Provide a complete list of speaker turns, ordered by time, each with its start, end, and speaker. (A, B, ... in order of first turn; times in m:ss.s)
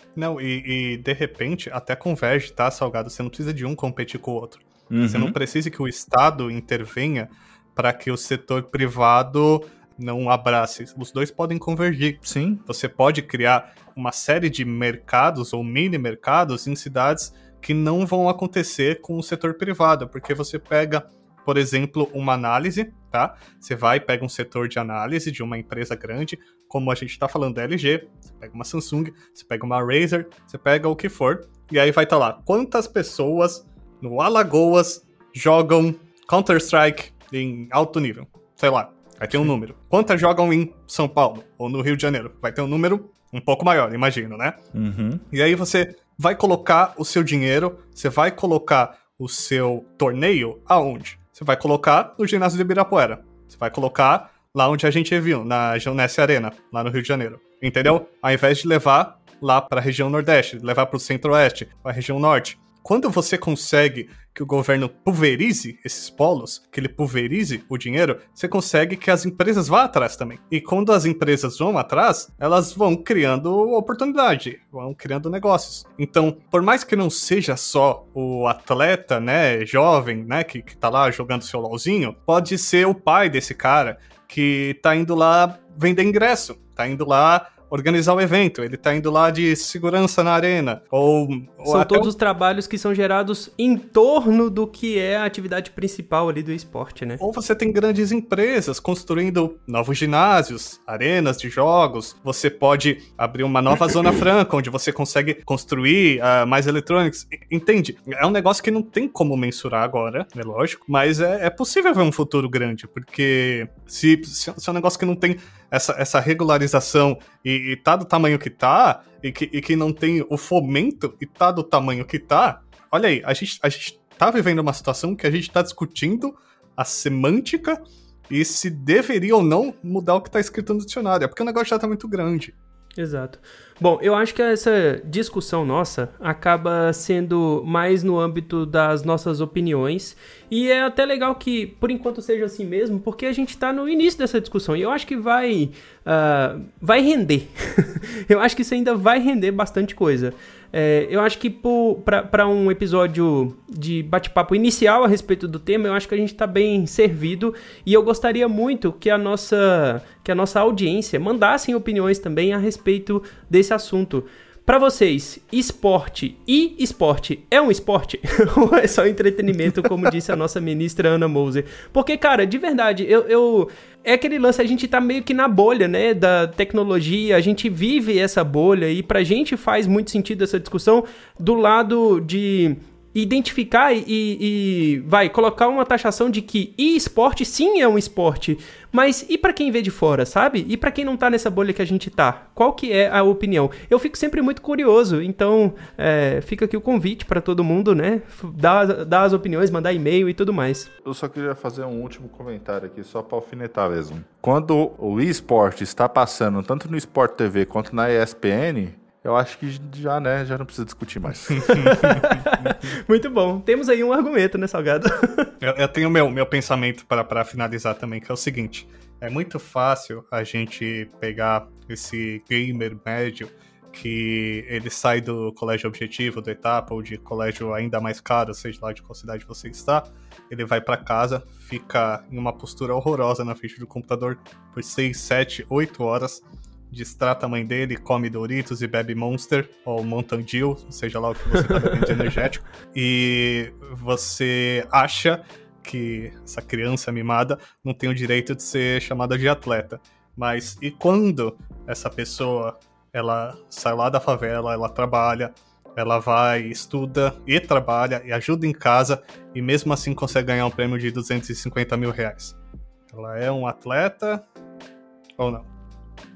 0:00.2-0:44.6 A
0:04.9-0:05.4 B
0:12.3-0:12.6 B
0:44.7-0:45.2 B
0:45.3-1:32.1 A
1:31.7-1:37.2 C
1:37.2-2:07.8 A
2:08.3-2:12.5 A
2:13.0-3:20.9 C
3:21.0-3:32.2 B
3:31.5-3:32.3 A
3:31.6-3:35.5 C
3:35.6-4:22.6 A
4:23.1-4:24.4 A
4:25.4-4:25.7 A